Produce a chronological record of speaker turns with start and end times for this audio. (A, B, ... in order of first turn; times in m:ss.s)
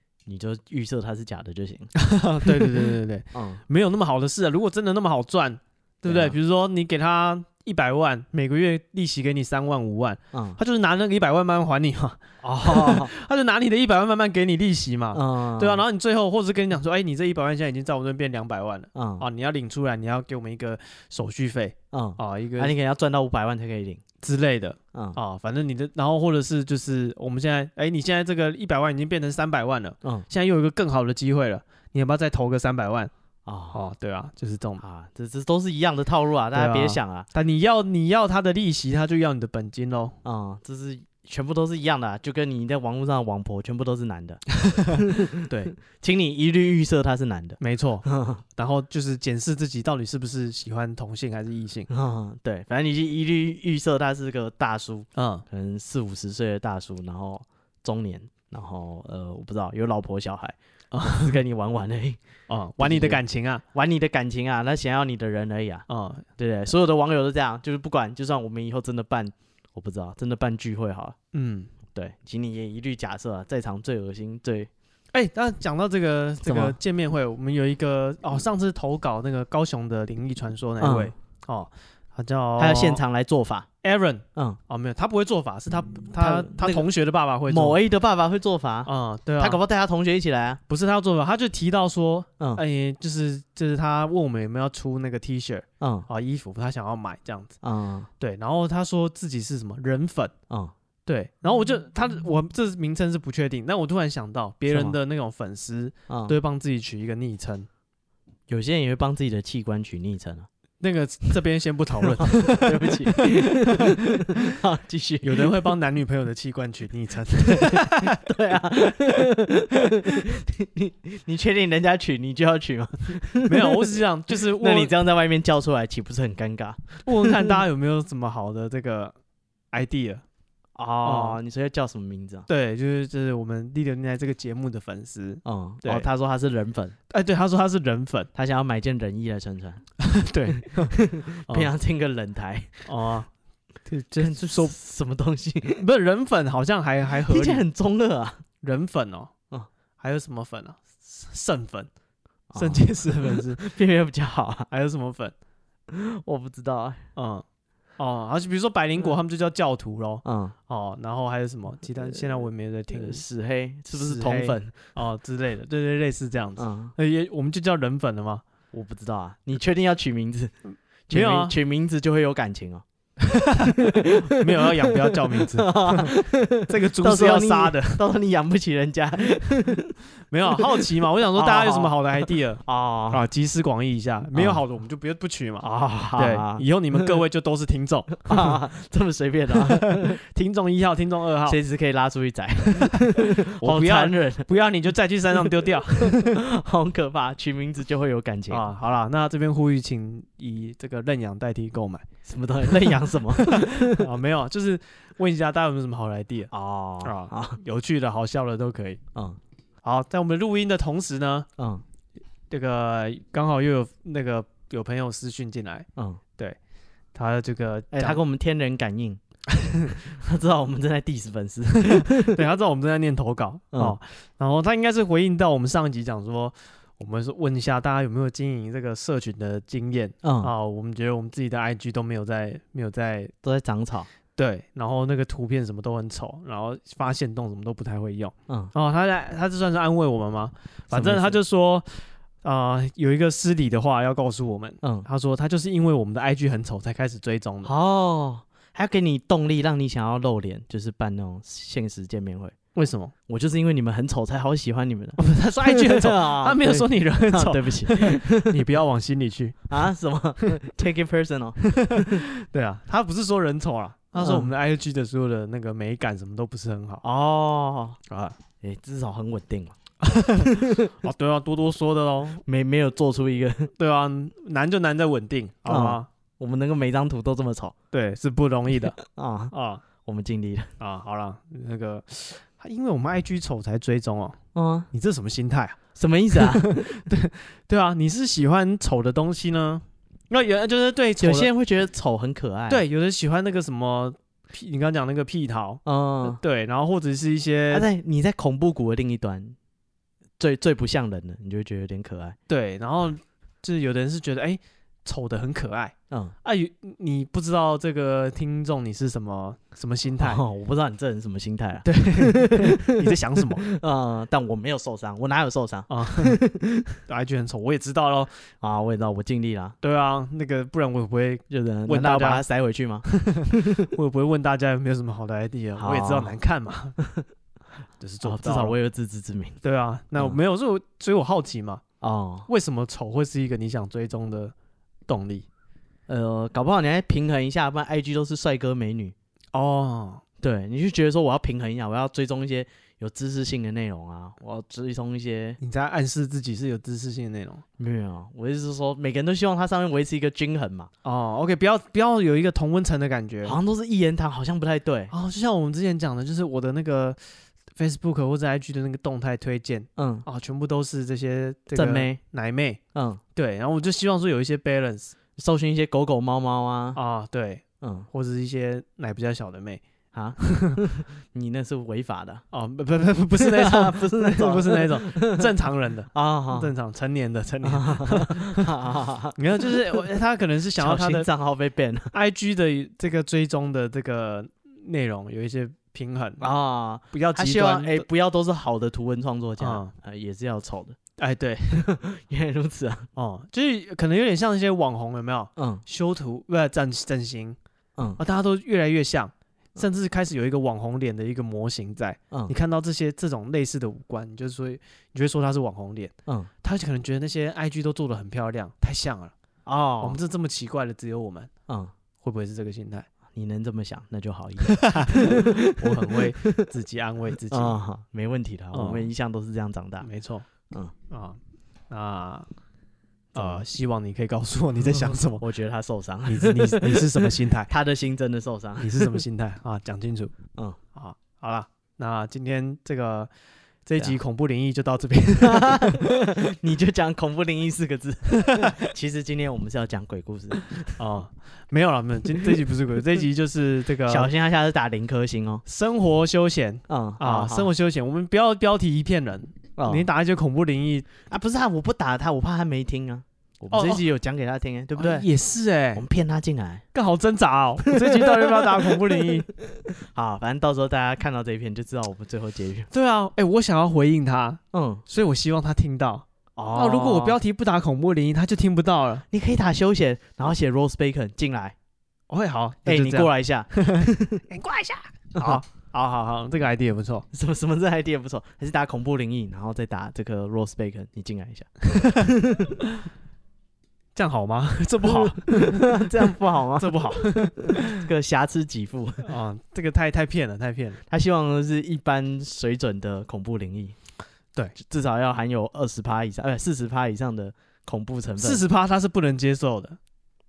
0:00.2-0:01.9 A
0:02.0-0:22.7 B
0:03.3-0:03.6 A
0:06.0-0:06.4 A
0:10.3-0:10.6 A
0:12.4-0:13.1 A
0:15.1-0:15.8 A
0:18.9-0:19.2 A
0:21.9-0:24.0 A
0:24.2-0:33.1 B
0:24.9-0:25.2 A
0:33.4-0:33.8 A
0:33.7-0:34.8 B
0:34.8-0:37.3 A
0:36.5-0:40.2 B
0:40.2-0:48.4 A
0:45.5-0:45.7 B
0:47.6-0:51.9 B
0:51.9-1:02.2 A
0:55.1-0:55.4 B
1:00.9-1:01.4 B
1:02.5-1:03.6 B
1:02.8-1:03.2 A
1:03.7-1:05.8 A
1:05.9-1:06.2 B
1:06.4-1:11.2 A
1:11.3-1:11.7 B
1:11.9-1:14.7 A
1:15.1-1:23.0 B
1:16.4-1:16.8 A
1:20.8-1:21.1 A
1:22.6-1:23.7 A
1:23.8-1:27.8 B
1:26.2-1:26.8 A
1:27.5-1:30.6 A
1:28.8-1:29.6 B
1:30.7-1:37.6 B
1:35.8-1:36.1 A
1:37.6-1:38.1 A
1:38.2-1:40.3 B
1:41.0-1:47.7 B
1:44.7-1:45.0 A
1:46.1-1:46.4 A
1:48.5-1:50.5 A
1:50.8-1:54.6 B
1:52.2-1:55.6 A
1:55.2-1:58.2 B
1:57.4-2:07.6 A
2:03.4-2:04.9 B
2:07.0-2:09.1 B
2:09.7-2:10.2 B
2:10.8-2:12.5 A
2:11.0-2:11.4 B
2:12.5-2:16.1 B
2:15.4-2:17.0 A
2:17.1-2:18.3 B
2:18.3-2:19.8 A
2:20.0-2:21.7 B
2:20.6-2:22.9 A
2:22.8-2:23.3 B
2:23.8-2:24.7 B
2:24.1-2:25.8 A
2:25.8-2:27.6 B
2:27.2-2:28.4 A
2:28.6-2:29.3 B
2:30.0-2:31.9 B
2:32.5-2:34.7 A
2:32.5-2:33.6 B
2:34.7-2:35.3 B
2:35.9-2:37.0 A
2:37.2-2:37.4 B
2:38.0-2:43.2 B
2:40.2-2:40.5 A
2:41.9-2:44.9 A
2:43.9-2:48.4 B
2:46.6-2:46.9 A
2:48.7-2:50.5 A
2:51.1-2:52.8 A
2:51.1-2:51.6 B
2:53.2-2:58.0 B
2:53.6-3:00.0 A
3:00.3-3:08.6 B
3:01.3-3:03.2 A
3:04.3-3:04.6 A
3:05.6-3:07.2 A
3:08.2-3:10.2 A
3:09.5-3:11.6 B
3:11.4-3:14.5 A
3:12.7-3:16.4 B
3:15.9-3:18.6 A
3:18.5-3:22.0 B
3:22.2-3:24.1 A
3:22.7-3:26.5 B
3:26.5-3:27.6 A
3:27.0-3:29.0 B
3:29.8-3:31.5 B
3:31.6-3:31.8 A
3:32.5-3:35.9 B
3:36.0-3:36.2 A
3:37.1-3:38.2 B
3:37.9-3:42.4 A
3:39.5-3:40.0 B
3:41.9-3:53.3 B
3:50.2-3:50.5 A
3:53.4-3:54.1 A
3:54.4-4:07.7 B
4:00.9-4:01.4 A
4:04.8-4:05.1 A
4:07.6-4:12.6 A
4:12.7-4:13.1 B
4:13.3-4:18.6 A
4:15.2-4:19.8 B
4:19.7-4:22.2 A
4:21.7-4:27.0 B
4:24.2-4:24.5 A
4:27.0-4:28.0 A
4:28.1-4:28.4 B
4:28.6-4:29.8 A
4:30.0-4:32.4 B
4:30.3-4:30.9 A
4:32.4-4:33.7 A
4:33.8-4:36.1 B
4:35.7-4:37.7 A
4:37.9-4:39.0 B
4:39.0-4:40.7 A
4:39.5-4:39.8 B
4:40.8-4:44.4 B
4:44.5-4:44.9 A
4:44.9-4:45.8 B
4:45.9-4:47.0 A
4:46.3-4:51.5 B
4:51.2-4:52.8 A
4:52.7-4:57.9 B
4:55.8-4:56.4 A
4:57.7-4:59.6 A
5:00.4-5:02.4 A
5:02.5-5:10.4 B
5:10.2-5:17.0 A
5:11.8-5:13.6 B
5:15.9-5:16.4 B
5:17.1-5:18.4 B
5:18.6-5:19.8 A
5:19.8-5:22.4 B
5:21.5-5:23.9 A
5:23.0-5:27.0 B
5:25.8-5:26.3 A
5:27.0-5:27.2 A
5:28.0-5:28.8 B
5:28.2-5:29.6 A
5:29.6-5:31.8 B
5:32.0-5:32.5 A
5:32.5-5:34.5 B
5:35.1-5:35.5 B
5:36.1-5:39.1 A
5:39.5-5:40.2 B
5:40.4-5:45.6 A
5:45.6-5:47.6 B
5:47.8-5:50.9 A
5:51.0-5:53.6 B
5:53.4-5:55.1 A
5:55.1-5:57.2 B
5:57.7-6:02.8 B
6:00.0-6:00.2 A
6:01.7-6:02.2 A
6:02.9-6:03.2 A
6:03.3-6:05.1 B
6:05.4-6:07.0 A
6:06.9-6:09.8 B
6:07.8-6:08.1 A
6:10.1-6:12.4 A
6:10.4-6:10.8 B
6:12.5-6:18.7 B
6:13.3-6:15.6 A
6:16.1-6:16.7 A
6:17.6-6:20.0 A
6:19.4-6:21.3 B
6:20.8-6:22.1 A
6:22.1-6:26.4 B
6:26.4-6:31.0 A
6:27.1-6:28.1 B
6:29.6-6:29.9 B
6:31.2-6:31.8 B
6:31.7-6:33.1 A
6:33.1-6:37.6 B
6:35.6-6:35.8 A
6:38.2-6:49.3 B
6:46.2-6:46.5 A
6:49.6-6:50.2 A
6:50.0-6:51.5 B
6:52.2-6:53.1 B
6:53.3-6:56.7 A
6:54.7-6:57.7 B
6:57.5-7:00.1 A
6:58.7-6:59.1 B
7:00.0-7:00.5 B
7:01.1-7:01.4 B
7:01.9-7:02.5 B
7:03.3-7:03.6 A
7:03.3-7:05.4 B
7:04.9-7:09.2 A
7:06.2-7:07.7 B
7:08.8-7:10.3 B
7:10.9-7:13.3 B
7:13.8-7:16.1 B
7:15.4-7:21.0 A
7:18.4-7:18.8 B
7:21.0-7:24.3 B
7:24.0-7:25.6 A
7:25.6-7:31.1 B
7:26.9-7:27.7 A
7:29.8-7:30.1 A
7:31.2-7:35.3 A
7:33.7-7:34.0 B
7:35.0-7:36.0 B
7:35.9-7:36.8 A
7:36.9-7:39.5 B
7:37.8-7:42.9 A
7:42.9-7:49.2 B
7:44.7-7:45.0 A
7:46.6-7:47.4 A
7:49.3-7:51.7 A
7:52.3-7:57.2 B
7:52.8-7:54.4 A
7:57.3-8:02.8 A
8:04.1-8:08.0 B
8:05.0-8:09.3 A
8:09.2-8:11.0 B
8:11.1-8:14.0 A
8:14.7-8:18.6 A
8:18.4-8:20.0 B